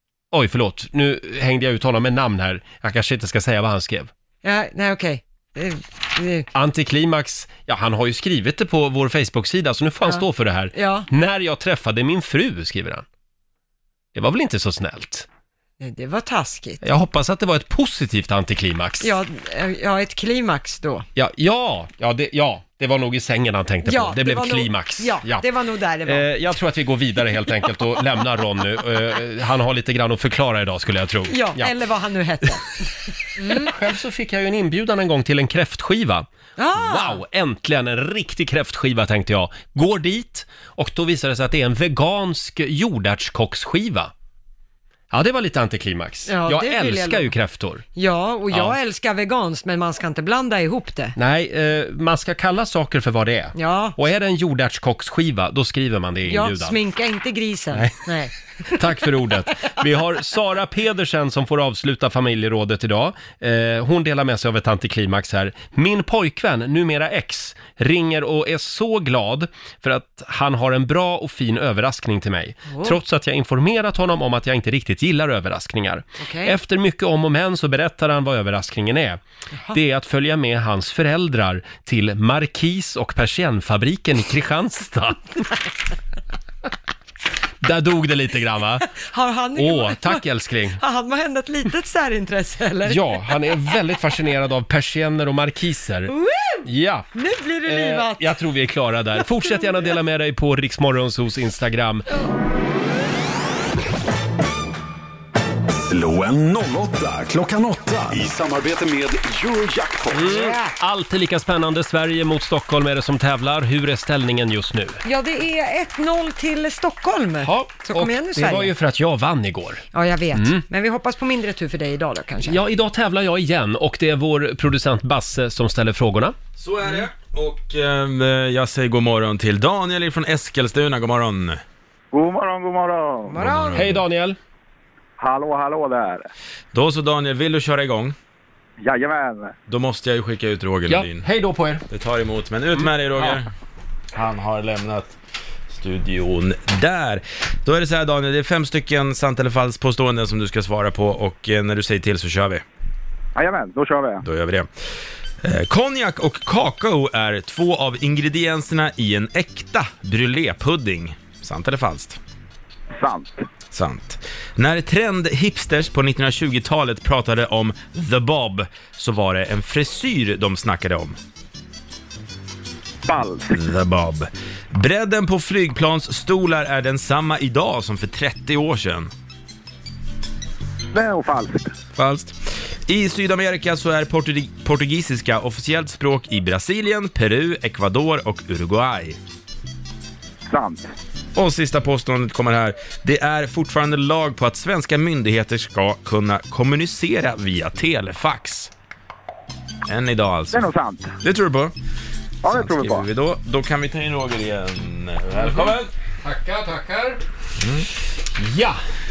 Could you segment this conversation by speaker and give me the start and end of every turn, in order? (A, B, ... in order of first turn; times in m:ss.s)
0:00.3-0:04.1 A
0:04.4-0:06.5 B
0:06.5-0:13.0 A
0:10.7-0:11.1 B
0:14.2-0:15.3 A
0:15.8-0:16.8 B
0:16.8-0:19.1 A
0:19.0-0:21.1 B
0:21.2-0:25.5 A
0:23.8-0:26.3 B
0:26.0-0:31.8 A
0:31.3-0:33.8 B
0:33.5-0:44.1 A
0:36.6-0:37.2 B
0:45.1-0:47.8 A
0:46.3-0:47.3 B
0:48.0-0:51.2 B
0:48.5-0:48.8 A
0:51.2-0:56.8 A
0:53.6-0:54.0 B
0:56.3-0:58.8 B
0:57.7-0:58.1 A
0:58.7-1:19.2 A
1:12.7-1:13.0 B
1:16.2-1:16.6 B
1:19.5-1:19.8 B
1:19.7-1:25.4 A
1:27.6-1:28.9 A
1:28.9-1:30.2 B
1:29.6-1:30.8 A
1:30.8-1:33.5 B
1:32.8-1:36.1 A
1:36.1-1:38.4 B
1:36.6-1:37.1 A
1:37.7-1:42.1 A
1:39.2-1:39.8 B
1:45.8-1:50.3 C
1:50.1-1:55.0 A
1:50.2-1:50.7 B
1:55.0-1:58.7 B
1:57.4-1:59.8 A
1:59.9-2:02.6 B
2:00.3-2:00.6 A
2:02.4-2:06.4 A
2:06.6-2:11.6 D
2:12.1-2:13.4 E
2:13.3-2:14.0 B
2:13.4-2:14.4 A
2:13.5-2:13.8 D
2:15.2-2:16.3 E
2:16.7-2:18.2 D
2:18.8-2:19.6 E
2:19.7-2:21.3 D
2:20.9-2:21.8 A
2:21.9-2:23.5 D
2:24.1-2:25.2 D
2:25.7-2:32.6 D
2:33.4-2:34.2 E
2:34.2-2:34.7 D
2:35.4-2:42.2 D
2:42.9-2:43.4 E
2:43.7-2:51.2 D
2:53.1-2:53.5 E
2:53.5-2:59.1 D
3:00.9-3:01.7 E
3:02.0-3:02.4 D
3:02.9-3:09.2 D
3:10.5-3:10.9 E
3:11.4-3:18.7 D
3:19.9-3:20.6 D
3:20.5-3:21.2 E
3:21.2-3:21.7 D
3:22.4-3:23.1 E
3:22.5-3:25.9 D
3:25.4-3:27.2 A
3:27.6-3:27.9 D
3:28.4-3:28.8 A